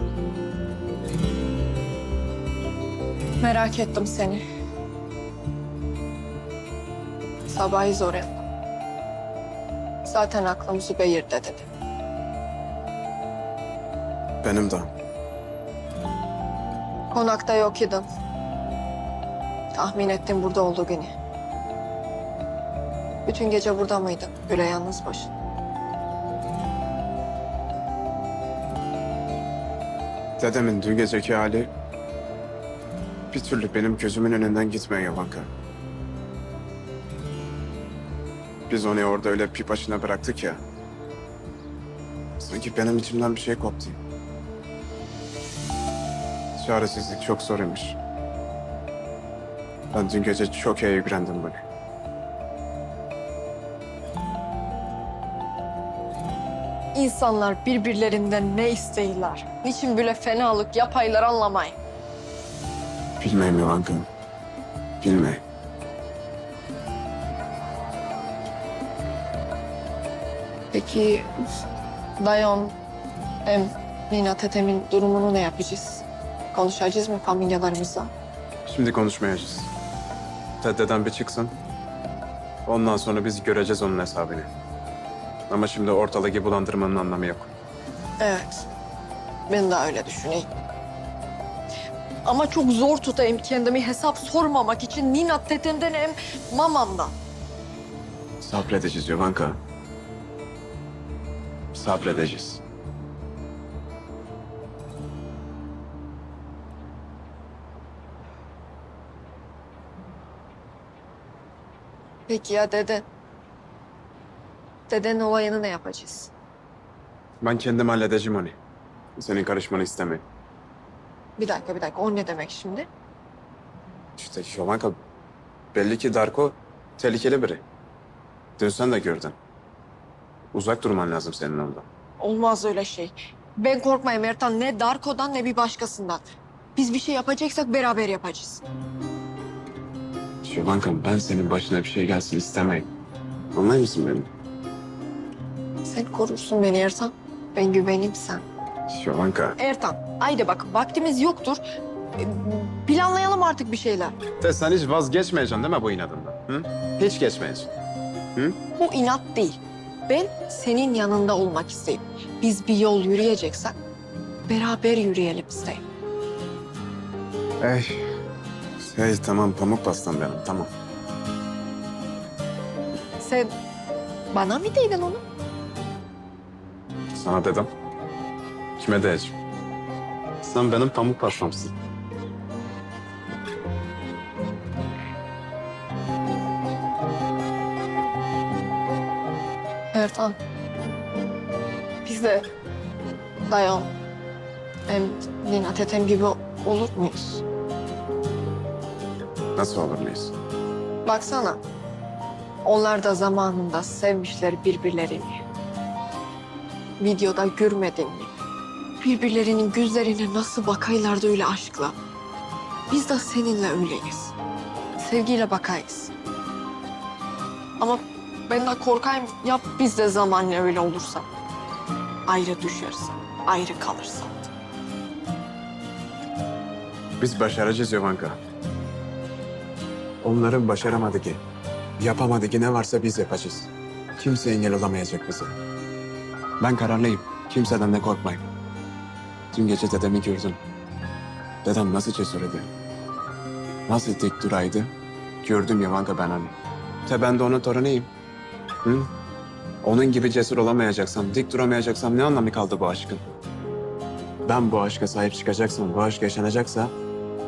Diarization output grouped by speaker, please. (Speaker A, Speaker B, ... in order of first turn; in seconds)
Speaker A: 3.4-4.4, 7.5-8.4, 10.1-11.7, 17.1-18.1, 19.7-21.1, 23.3-25.3, 56.9-61.8, 70.7-71.3, 72.2-72.8, 73.5-78.1, 88.2-88.7, 89.5-90.5, 92.2-97.1, 112.3-113.1, 114.9-116.3, 121.4-122.9, 132.2-136.2, 136.8-138.7, 145.8-148.4, 149.6-151.6, 152.2-154.2, 158.8-163.8, 164.5-165.9, 173.2-173.5, 174.3-175.2, 189.9-190.4, 192.0-192.5, 193.5-193.9, 194.9-197.4, 201.0-201.6, 202.6-205.4, 207.0-208.3, 209.0-212.0, 212.9-214.3, 215.0-216.1, 217.8-221.3, 222.3-224.5
Speaker B: 14.4-14.9, 30.4-31.7, 33.3-35.5, 38.7-40.6, 42.4-44.0, 46.6-48.0, 49.9-51.6, 63.2-64.1, 65.0-65.4, 78.7-79.7, 80.6-81.5, 82.7-84.5, 85.5-87.5, 98.4-99.6, 101.7-102.6, 117.4-118.6, 119.2-120.2, 124.2-125.0, 125.7-127.7, 128.6-129.4, 130.5-131.9, 140.4-142.9, 143.5-144.3, 148.9-149.6, 154.4-157.7, 167.6-168.1, 168.8-170.7, 177.1-177.7, 178.8-179.3, 180.4-181.7, 199.6-200.3, 227.2-228.4, 230.2-231.4, 232.0-235.6, 236.6-238.5, 239.5-240.6, 241.6-242.7, 243.9-244.9, 245.4-248.1, 248.8-249.1, 249.8-253.2, 254.5-256.9